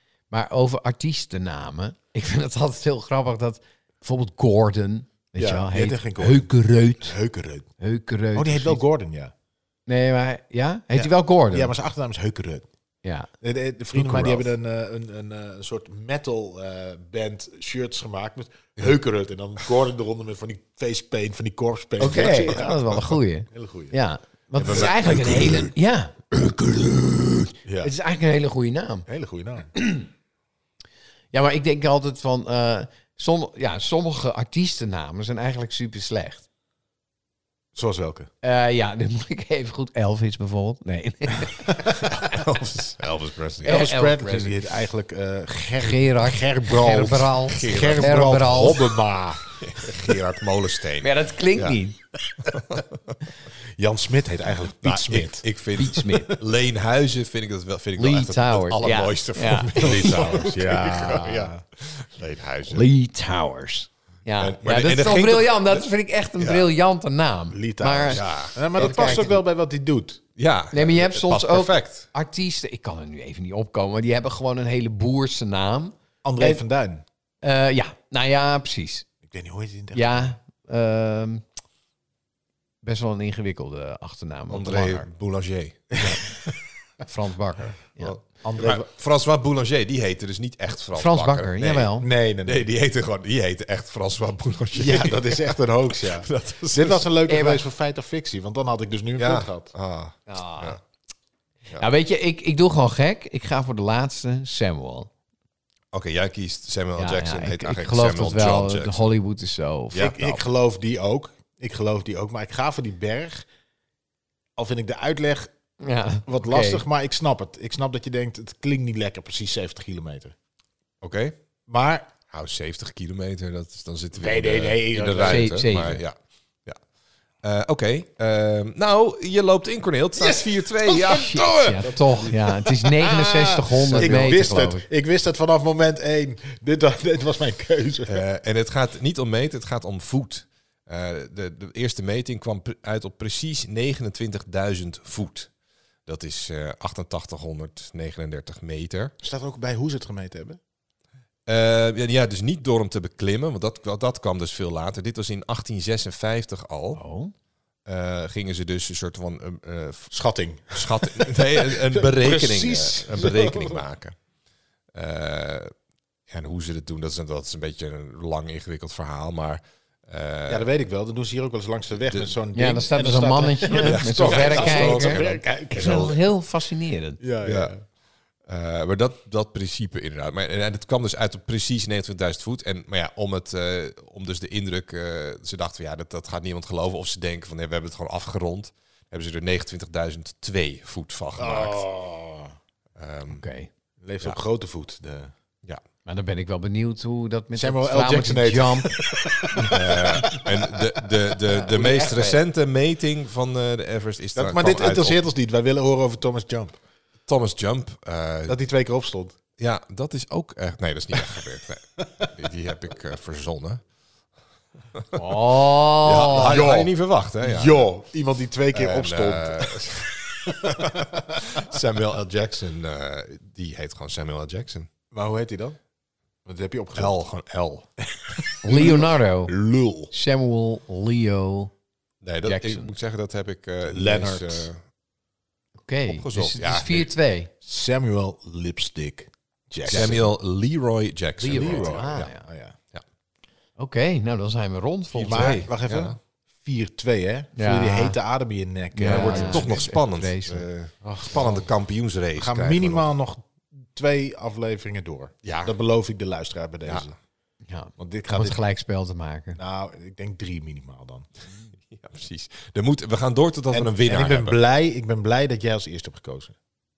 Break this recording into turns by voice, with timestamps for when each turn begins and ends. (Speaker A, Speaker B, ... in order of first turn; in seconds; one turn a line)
Speaker A: 0.3-7.2
Speaker B: 5.4-6.5
Speaker B: 7.0-7.7
Speaker A: 7.8-8.8
Speaker B: 8.3-9.3
Speaker A: 9.9-11.7
Speaker B: 10.9-12.7
Speaker A: 13.0-13.3
Speaker B: 13.4-23.9
Speaker A: 14.0-14.4
Speaker A: 22.0-29.1
Speaker C: 24.6-25.7
Speaker B: 24.7-25.2
Speaker B: 27.6-27.9
Speaker B: 29.1-29.7
Speaker A: 29.8-30.1
Speaker A: 31.3-36.5
Speaker B: 37.8-38.3
Speaker A: 38.4-42.4
Speaker C: 42.1-43.9
Speaker B: 43.6-50.2
Speaker A: 43.6-44.8
Speaker A: 45.8-48.8
Speaker C: 47.5-48.7
Speaker C: 49.5-51.8
Speaker A: 51.0-52.0
Speaker C: 52.5-52.9
Speaker B: 53.8-55.5
Speaker C: 54.8-62.9
Speaker A: 55.8-56.4
Speaker B: 56.0-56.4
Speaker A: 58.0-60.5
Speaker B: 59.8-61.6
Speaker A: 62.7-68.2
Speaker C: 64.4-65.9
Speaker C: 66.4-66.7
Speaker B: 67.5-70.2
Speaker C: 68.1-69.3
Speaker A: 68.7-69.4
Speaker C: 70.4-72.1
Speaker A: 70.7-76.6
Speaker B: 76.2-77.0
Speaker A: 77.4-79.1
Speaker B: 79.3-80.3
Speaker A: 79.9-81.4
Speaker A: 82.8-85.1
Speaker C: 84.5-86.1
Speaker B: 85.9-86.2
Speaker A: 87.0-88.2
Speaker C: 88.0-91.9
Speaker B: 88.4-88.9
Speaker A: 90.9-92.1
Speaker B: 92.0-92.7
Speaker C: 92.4-97.1
Speaker B: 94.7-99.7
Speaker A: 97.3-97.6
Speaker C: 99.2-100.8
Speaker A: 100.3-100.8
Speaker A: 101.8-105.1
Speaker C: 105.9-109.0
Speaker A: 107.0-110.4
Speaker B: 109.9-113.5
Speaker B: 114.6-115.5
Speaker A: 115.8-116.8
Speaker B: 116.3-120.3
Speaker C: 121.0-121.4
Speaker B: 121.7-122.1
Speaker C: 122.3-126.8
Speaker B: 124.1-125.6
Speaker A: 125.2-126.0
Speaker C: 127.4-131.8
Speaker B: 130.2-138.2
Speaker A: 131.0-134.8
Speaker C: 133.9-134.4
Speaker C: 138.1-145.5
Speaker C: 146.1-149.1
Speaker B: 149.2-150.6
Speaker C: 151.5-157.0
Speaker A: 156.9-157.3
Speaker C: 157.9-160.1
Speaker B: 160.1-163.8
Speaker C: 160.7-164.2
Speaker C: 164.9-165.7
Speaker C: 166.3-170.7
Speaker B: 170.5-176.2
Speaker C: 172.1-172.3
Speaker A: 172.6-175.2
Speaker C: 173.7-176.1
Speaker A: 175.7-177.2
Speaker B: 177.2-177.8
Speaker C: 177.4-177.7
Speaker C: 178.5-191.8
Speaker B: 191.4-192.5
Speaker C: 193.0-193.4
Speaker A: 193.3-193.7
Speaker B: 194.0-195.3
Speaker A: 196.1-200.4
Speaker B: 197.6-200.5
Speaker C: 199.7-205.2
Speaker A: 201.5-202.4
Speaker B: 204.3-206.8
Speaker C: 207.3-208.6
Speaker B: 208.5-209.4
Speaker C: 209.6-213.8
Speaker A: 215.1-216.6
Speaker C: 216.0-217.9
Speaker B: 216.4-221.6
Speaker C: 218.7-224.9
Speaker B: 225.1-225.8
Speaker B: 226.4-227.2
Speaker C: 227.0-227.9
Speaker B: 228.1-230.0
Speaker A: 228.6-229.5
Speaker C: 228.7-229.0
Speaker C: 229.6-230.1
Speaker A: 230.1-231.7
Speaker C: 232.2-234.8
Speaker A: 232.4-232.9
Speaker B: 233.9-234.7
Speaker A: 235.8-237.5
Speaker C: 236.1-237.1
Speaker B: 237.6-240.3
Speaker C: 239.8-242.3
Speaker A: 241.4-242.4
Speaker B: 241.4-242.8
Speaker A: 243.8-245.7
Speaker C: 245.1-246.2
Speaker B: 245.2-249.9
Speaker A: 247.6-248.2
Speaker A: 248.9-251.3
Speaker C: 249.0-253.1
Speaker B: 252.4-257.1
Speaker C: 255.4-255.7
Speaker A: 257.7-259.6
Speaker B: 258.0-258.6
Speaker B: 259.6-261.3
Speaker C: 261.9-264.6
Speaker B: 263.7-266.5